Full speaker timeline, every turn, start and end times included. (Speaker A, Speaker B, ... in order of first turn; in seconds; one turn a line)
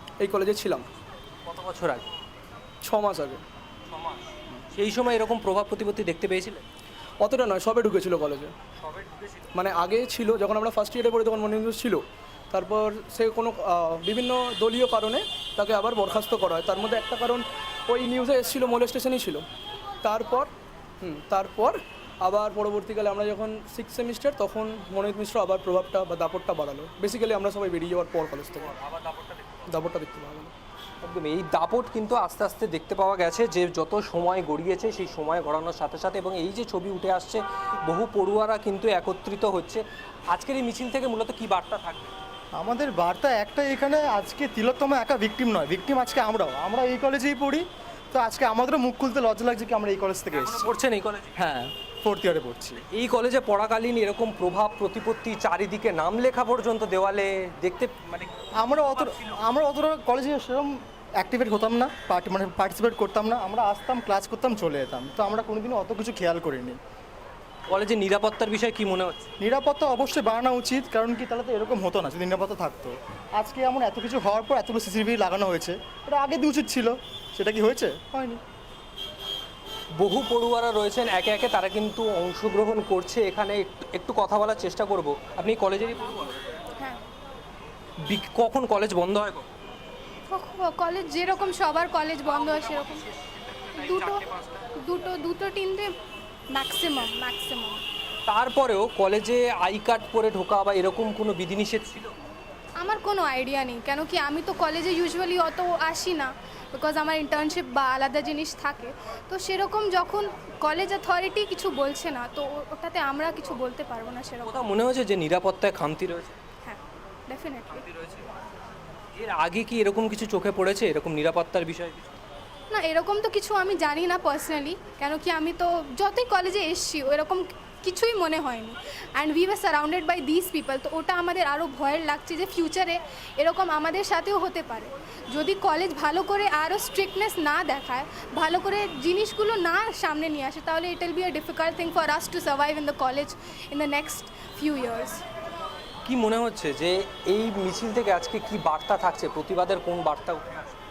Speaker A: 0.2-0.9
Speaker B: 1.5-2.0
Speaker A: 2.8-3.4
Speaker B: 3.9-6.6
Speaker A: 7.2-8.5
Speaker B: 8.8-9.5
Speaker A: 9.5-19.5
Speaker A: 20.0-20.5
Speaker A: 21.0-28.7
Speaker B: 28.6-29.7
Speaker A: 29.7-30.5
Speaker B: 31.0-42.1
Speaker C: 42.5-50.7
Speaker B: 50.3-51.5
Speaker C: 51.4-52.8
Speaker B: 52.9-58.3
Speaker C: 58.6-66.8
Speaker B: 59.0-59.3
Speaker B: 67.7-69.3
Speaker C: 69.4-78.4
Speaker B: 80.0-86.4
Speaker B: 88.0-89.5
Speaker D: 90.3-93.0
Speaker D: 93.8-94.3
Speaker B: 94.2-94.5
Speaker D: 94.8-95.9
Speaker D: 96.5-97.8
Speaker B: 98.3-102.1
Speaker D: 102.8-114.7
Speaker B: 114.4-116.4
Speaker D: 116.6-117.9
Speaker B: 117.8-118.3
Speaker B: 119.2-122.1
Speaker D: 122.7-145.2
Speaker B: 146.1-150.6